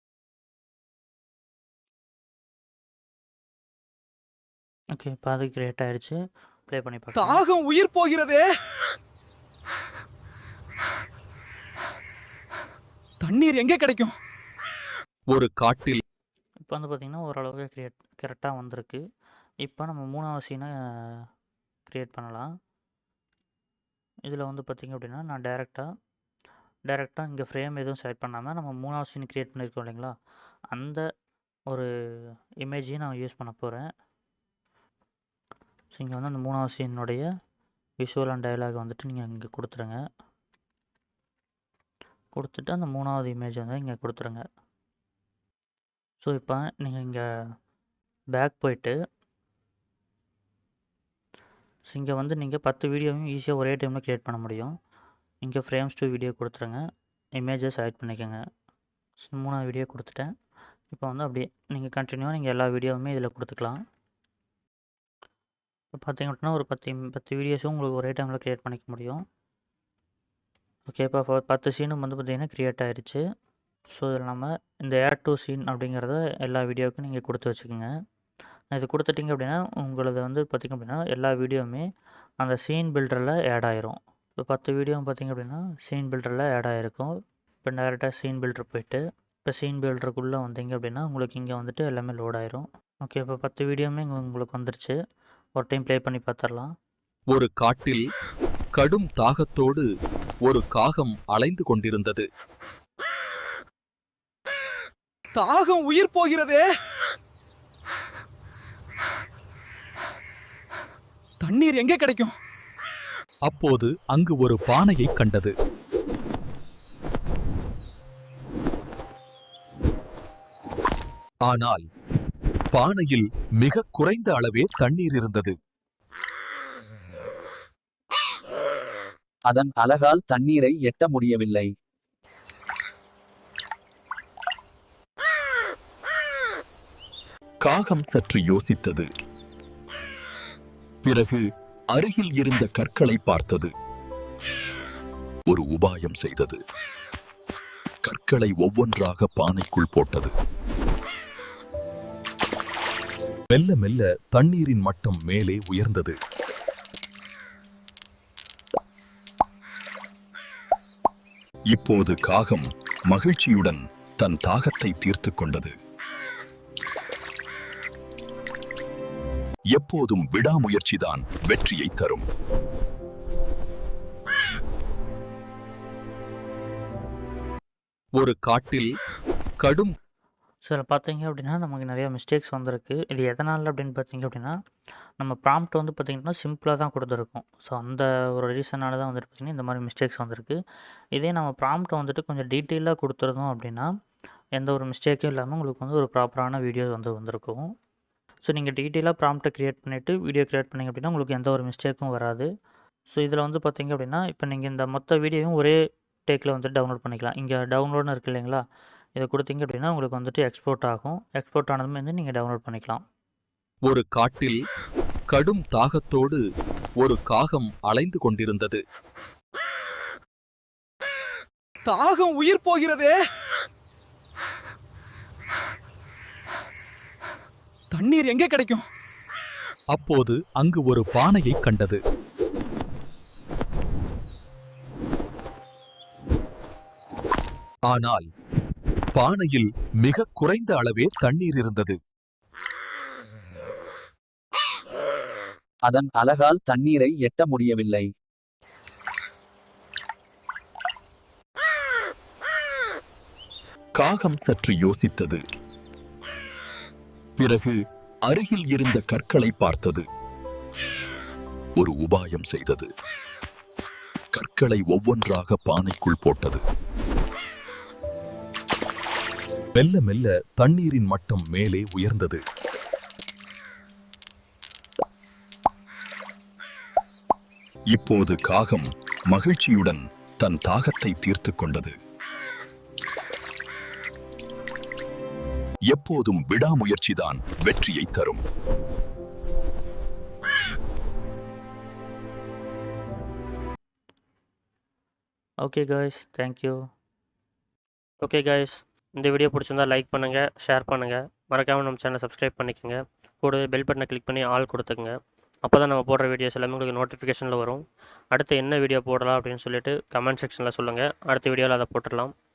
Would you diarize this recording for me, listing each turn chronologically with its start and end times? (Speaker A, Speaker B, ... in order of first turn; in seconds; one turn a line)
Speaker A: 4.9-7.4
Speaker B: 7.2-8.4
Speaker B: 13.2-14.1
Speaker C: 15.3-16.0
Speaker A: 16.6-19.0
Speaker A: 19.6-21.2
Speaker A: 21.9-22.5
Speaker A: 24.3-25.9
Speaker A: 26.9-30.1
Speaker A: 30.7-31.0
Speaker A: 32.6-33.9
Speaker A: 35.9-37.3
Speaker A: 38.0-40.0
Speaker A: 42.4-44.4
Speaker A: 46.2-47.2
Speaker A: 48.4-49.0
Speaker A: 51.9-54.7
Speaker A: 55.4-56.8
Speaker A: 57.4-58.4
Speaker A: 59.2-60.3
Speaker A: 60.9-63.8
Speaker A: 66.0-69.2
Speaker A: 70.9-73.2
Speaker A: 74.0-77.9
Speaker A: 78.8-81.8
Speaker A: 82.4-87.1
Speaker A: 87.6-95.0
Speaker A: 95.6-96.7
Speaker C: 97.3-98.0
Speaker C: 98.8-99.9
Speaker C: 100.5-102.3
Speaker B: 105.3-106.6
Speaker B: 111.4-112.3
Speaker C: 113.5-115.5
Speaker C: 121.5-121.8
Speaker C: 122.7-125.5
Speaker D: 129.5-131.7
Speaker C: 137.6-139.1
Speaker C: 141.0-141.4
Speaker C: 141.9-143.7
Speaker C: 145.5-146.6
Speaker C: 148.1-150.3
Speaker C: 153.5-156.2
Speaker C: 161.7-165.7
Speaker C: 169.7-172.2
Speaker C: 178.2-178.9
Speaker C: 179.6-179.9
Speaker A: 180.7-184.5
Speaker A: 185.2-190.6
Speaker A: 191.2-193.9
Speaker A: 194.6-197.7
Speaker A: 198.4-202.5
Speaker A: 203.1-205.8
Speaker A: 206.3-208.6
Speaker A: 209.2-213.0
Speaker C: 213.9-214.6
Speaker C: 215.3-216.4
Speaker C: 217.0-218.8
Speaker B: 221.9-223.2
Speaker B: 227.9-228.8
Speaker C: 229.9-232.0
Speaker C: 237.9-238.3
Speaker C: 239.2-242.0
Speaker D: 245.9-248.1
Speaker C: 254.0-255.4
Speaker C: 257.4-257.8
Speaker C: 258.3-260.0
Speaker C: 261.8-262.9
Speaker C: 264.3-266.6
Speaker C: 269.8-272.4
Speaker C: 277.9-281.9
Speaker C: 285.9-288.4
Speaker A: 295.6-296.8
Speaker E: 298.2-305.1
Speaker E: 305.6-312.3